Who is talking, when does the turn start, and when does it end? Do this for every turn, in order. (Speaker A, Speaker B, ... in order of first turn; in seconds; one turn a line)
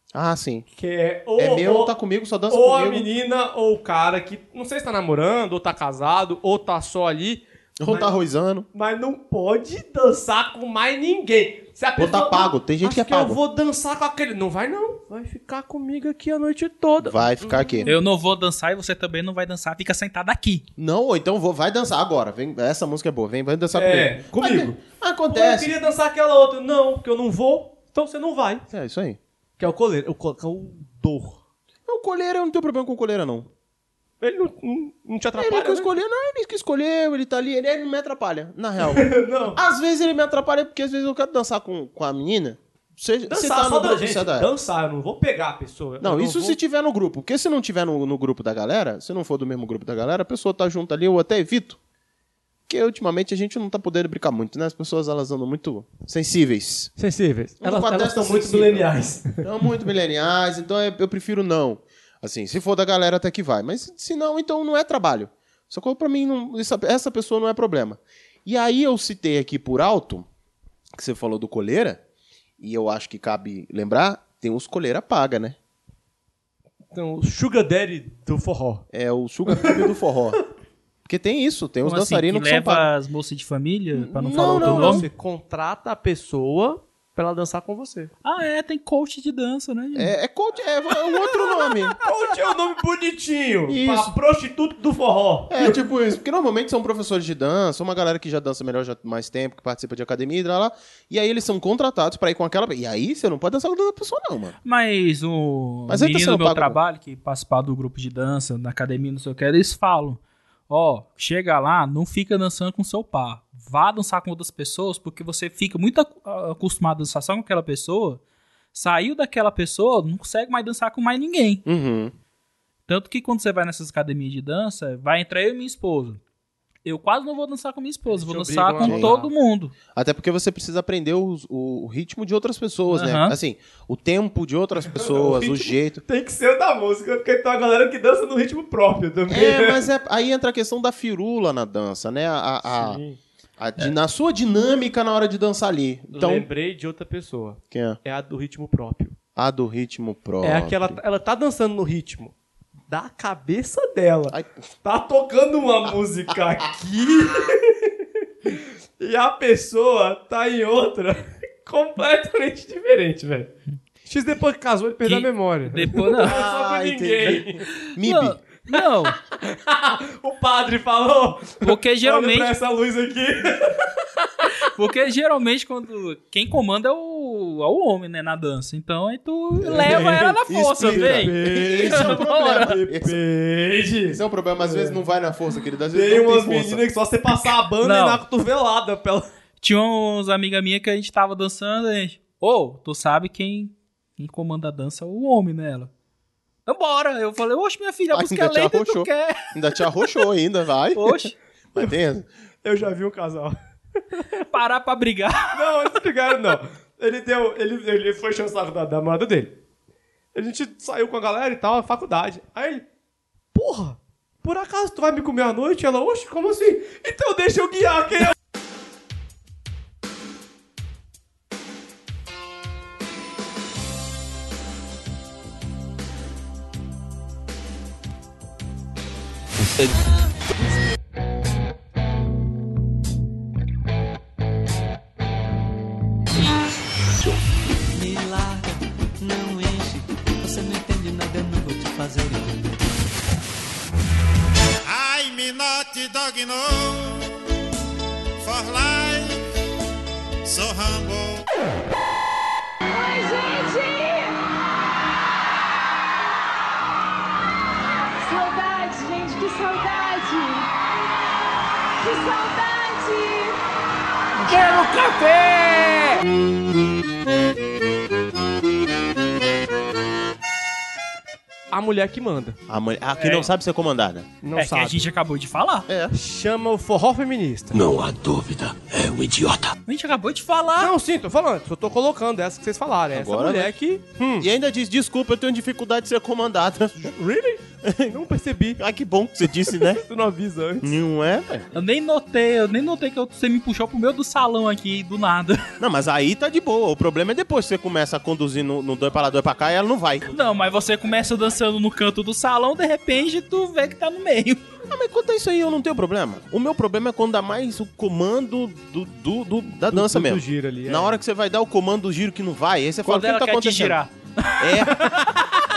Speaker A: 0.1-0.6
Speaker B: 0.7-1.9
Speaker A: 1.4-3.1
Speaker B: 2.5-8.2
Speaker A: 7.8-8.7
Speaker B: 8.7-18.0
Speaker A: 12.0-13.4
Speaker A: 17.0-17.9
Speaker C: 17.9-20.6
Speaker A: 20.8-25.7
Speaker B: 23.7-28.6
Speaker A: 28.7-29.2
Speaker B: 29.6-31.4
Speaker A: 31.9-33.5
Speaker B: 34.2-35.9
Speaker A: 35.4-44.5
Speaker B: 38.9-39.6
Speaker B: 43.3-46.6
Speaker A: 46.0-51.8
Speaker A: 52.7-56.9
Speaker B: 57.0-59.4
Speaker A: 57.6-70.3
Speaker A: 71.0-72.0
Speaker A: 72.6-75.5
Speaker B: 76.9-78.8
Speaker A: 78.9-80.4
Speaker B: 79.5-79.8
Speaker A: 81.0-82.9
Speaker C: 81.8-85.0
Speaker A: 83.9-85.0
Speaker B: 84.4-88.1
Speaker C: 88.2-90.1
Speaker A: 89.9-92.0
Speaker B: 91.5-95.8
Speaker A: 93.7-94.1
Speaker A: 95.5-104.5
Speaker C: 104.6-118.2
Speaker A: 105.9-106.8
Speaker C: 118.7-121.6
Speaker A: 121.6-122.1
Speaker C: 122.9-126.2
Speaker C: 126.8-129.7
Speaker B: 128.1-129.3
Speaker A: 128.8-129.1
Speaker A: 129.9-136.0
Speaker C: 132.9-133.3
Speaker B: 134.9-139.8
Speaker A: 139.3-143.0
Speaker B: 142.6-143.2
Speaker A: 143.6-146.5
Speaker B: 146.1-149.2
Speaker A: 147.7-148.0
Speaker A: 149.3-151.0
Speaker B: 150.4-152.3
Speaker B: 152.9-157.9
Speaker B: 158.4-163.5
Speaker B: 164.1-167.7
Speaker C: 165.0-166.3
Speaker A: 166.2-168.4
Speaker C: 168.0-169.1
Speaker B: 169.3-173.9
Speaker C: 171.6-172.5
Speaker C: 174.7-182.7
Speaker B: 179.6-185.0
Speaker A: 180.5-183.2
Speaker A: 184.1-186.8
Speaker B: 185.9-189.2
Speaker C: 187.8-188.2
Speaker C: 189.6-195.9
Speaker C: 196.7-199.5
Speaker A: 198.1-202.2
Speaker C: 200.9-201.3
Speaker B: 202.6-203.6
Speaker C: 204.5-205.5
Speaker B: 205.5-209.5
Speaker B: 210.3-212.8
Speaker B: 213.5-218.3
Speaker D: 237.9-242.9
Speaker E: 244.9-247.3
Speaker E: 248.4-249.4
Speaker E: 250.4-251.4
Speaker F: 252.9-254.4
Speaker F: 258.2-260.7
Speaker F: 261.9-263.6
Speaker B: 271.7-272.6
Speaker A: 272.7-274.3
Speaker C: 273.1-273.5
Speaker B: 274.4-275.0
Speaker C: 274.6-275.9
Speaker A: 275.9-276.1
Speaker B: 276.1-277.9
Speaker C: 279.9-280.9
Speaker B: 280.8-284.5
Speaker A: 283.1-283.7
Speaker A: 284.4-287.1
Speaker B: 287.0-288.8
Speaker A: 287.8-288.1
Speaker A: 288.8-290.0
Speaker B: 289.7-290.9
Speaker A: 290.8-291.6
Speaker C: 291.7-295.6
Speaker A: 295.8-300.2
Speaker C: 300.3-304.6
Speaker A: 304.9-314.0
Speaker B: 309.9-311.2
Speaker C: 313.0-314.6
Speaker A: 314.6-315.0
Speaker B: 314.8-315.6